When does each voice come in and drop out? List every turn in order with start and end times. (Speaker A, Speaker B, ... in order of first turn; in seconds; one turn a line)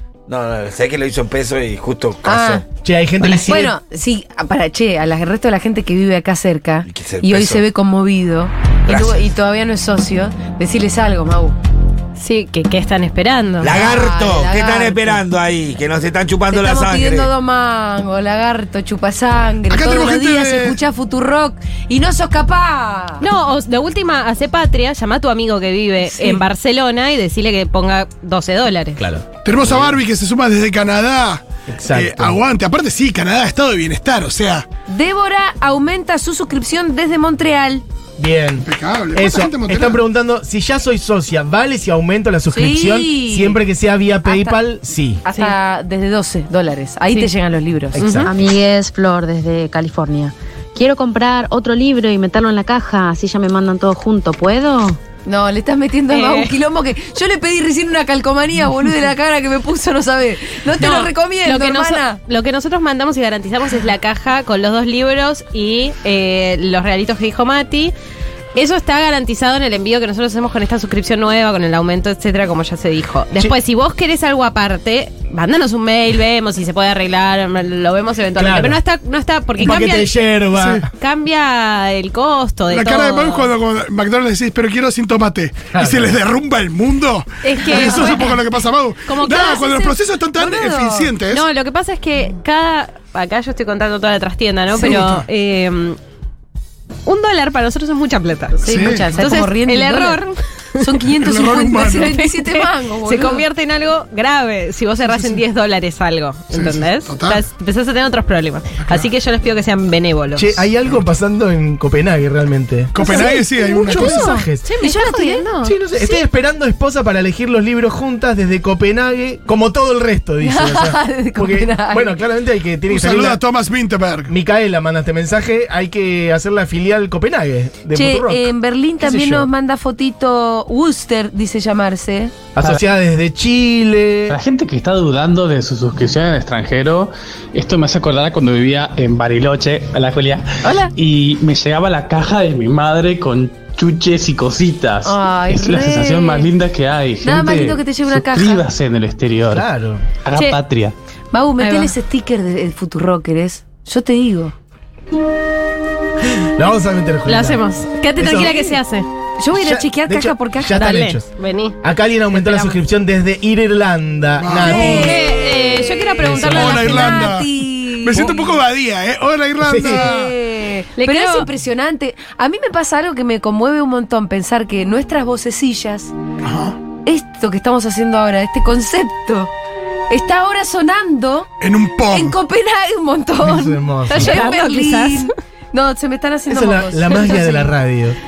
Speaker A: 0.3-2.6
Speaker B: 2.2-2.6
Speaker C: 2.8-3.7
Speaker B: 3.3-11.6
Speaker A: 6.9-7.6
Speaker A: 8.9-9.2
Speaker D: 12.2-13.8
Speaker A: 13.6-17.3
Speaker B: 13.6-15.2
Speaker B: 16.5-23.2
Speaker E: 19.7-20.8
Speaker D: 23.2-29.0
Speaker B: 26.0-26.4
Speaker C: 29.0-29.8
Speaker E: 29.4-34.6
Speaker C: 31.7-32.4
Speaker B: 34.9-37.8
Speaker C: 38.2-45.2
Speaker E: 38.6-40.0
Speaker B: 42.5-43.6
Speaker B: 44.2-44.6
Speaker B: 45.2-48.0
Speaker D: 45.2-45.5
Speaker C: 47.9-48.4
Speaker D: 48.0-48.3
Speaker F: 48.3-55.0
Speaker B: 55.2-62.2
Speaker D: 56.1-56.5
Speaker D: 60.8-67.9
Speaker D: 68.5-80.2
Speaker C: 78.3-78.8
Speaker C: 79.6-80.9
Speaker E: 80.5-80.8
Speaker D: 80.9-83.5
Speaker E: 82.7-91.4
Speaker C: 85.7-86.2
Speaker D: 87.4-88.4
Speaker B: 87.7-88.2
Speaker D: 89.1-89.8
Speaker B: 89.3-91.1
Speaker D: 91.3-96.0
Speaker E: 94.8-95.2
Speaker D: 97.0-100.9
Speaker E: 98.6-99.2
Speaker B: 98.6-100.2
Speaker B: 100.8-103.4
Speaker E: 101.2-102.2
Speaker D: 102.1-110.6
Speaker E: 106.5-107.4
Speaker E: 108.8-109.1
Speaker C: 110.3-114.7
Speaker E: 112.9-114.3
Speaker B: 113.0-115.5
Speaker D: 114.1-115.7
Speaker C: 115.6-123.4
Speaker B: 120.4-122.1
Speaker E: 122.9-124.3
Speaker C: 124.3-129.5
Speaker B: 127.9-132.3
Speaker C: 132.5-134.3
Speaker G: 134.3-149.7
Speaker B: 145.0-146.5
Speaker B: 147.2-148.6
Speaker C: 149.5-150.0
Speaker G: 150.2-150.9
Speaker B: 151.3-154.5
Speaker D: 151.6-151.9
Speaker C: 156.6-157.6
Speaker D: 157.2-159.1
Speaker C: 158.2-158.6
Speaker B: 158.3-158.8
Speaker B: 159.4-160.9
Speaker C: 159.5-161.3
Speaker D: 160.7-161.8
Speaker C: 161.8-165.2
Speaker D: 162.3-162.8
Speaker E: 164.4-165.2
Speaker B: 164.7-168.5
Speaker D: 164.9-167.3
Speaker C: 166.2-167.2
Speaker E: 166.5-170.3
Speaker C: 169.6-170.0
Speaker B: 169.8-176.1
Speaker D: 170.9-171.5
Speaker E: 176.4-176.8
Speaker B: 177.1-179.5
Speaker B: 180.1-181.5
Speaker E: 181.6-182.4
Speaker B: 182.1-187.7
Speaker C: 183.4-184.4
Speaker D: 184.1-185.3
Speaker C: 186.5-188.2